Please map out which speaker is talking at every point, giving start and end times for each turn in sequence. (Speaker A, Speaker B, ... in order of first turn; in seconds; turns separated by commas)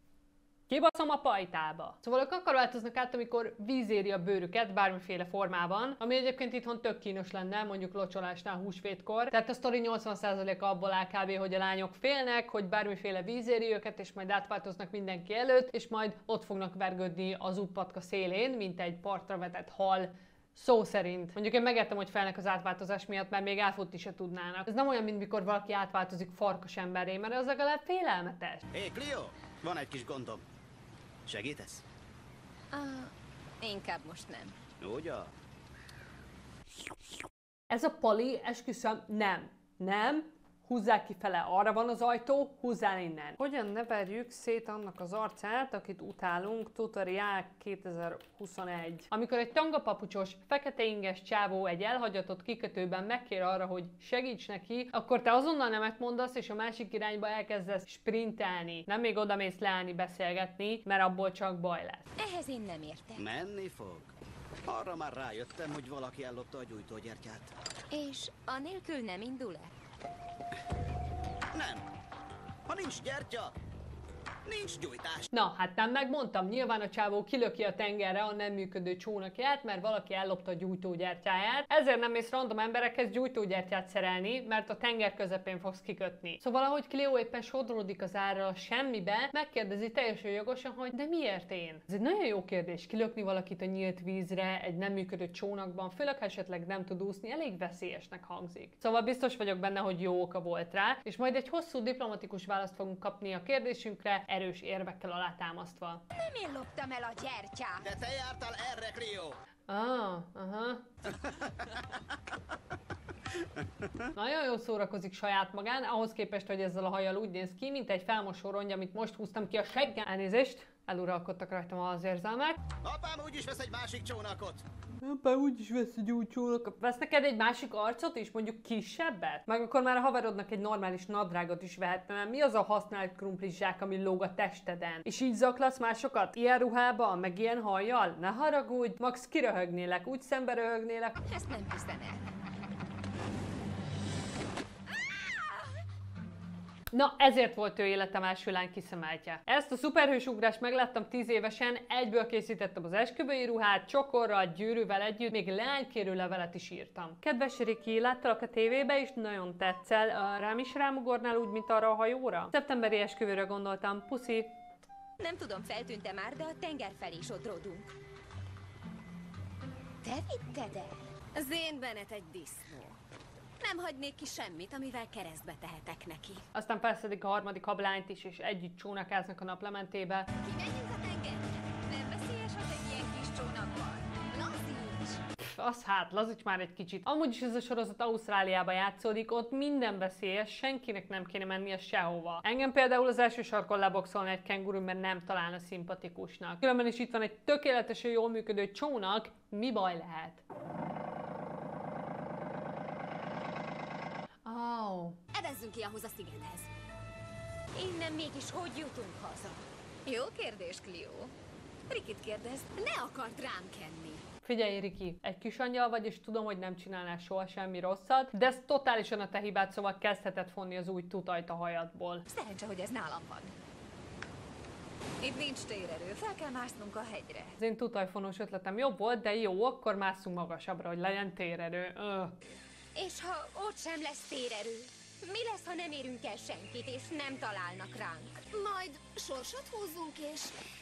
Speaker A: 0.7-28.6, Speaker B: 28.7-30.4, Speaker B: 31.3-31.8, Speaker C: 32.7-34.6, Speaker B: 34.8-35.3, Speaker A: 37.7-62.1, Speaker C: 62.2-63.2, Speaker B: 63.2-64.1, Speaker B: 64.7-67.5, Speaker C: 67.9-69.7, Speaker B: 71.5-71.9, Speaker B: 72.7-73.5, Speaker B: 74.5-75.3, Speaker A: 75.3-106.0, Speaker C: 106.2-107.9, Speaker B: 107.8-109.4, Speaker A: 109.7-110.9, Speaker B: 111.1-112.0, Speaker A: 114.1-122.6, Speaker B: 122.8-124.6, Speaker A: 125.0-141.2, Speaker C: 141.2-142.2, Speaker C: 144.9-145.8, Speaker A: 146.9-164.5, Speaker C: 165.2-167.9, Speaker C: 170.0-173.0, Speaker C: 173.6-176.4, Speaker A: 176.6-180.3, Speaker C: 180.4-185.2, Speaker A: 185.4-200.4, Speaker A: 204.4-205.2, Speaker C: 205.3-206.7, Speaker C: 207.8-211.3, Speaker C: 211.9-214.2, Speaker A: 214.4-222.2, Speaker C: 222.3-223.6, Speaker C: 225.2-227.6, Speaker A: 227.6-232.4, Speaker C: 232.9-240.6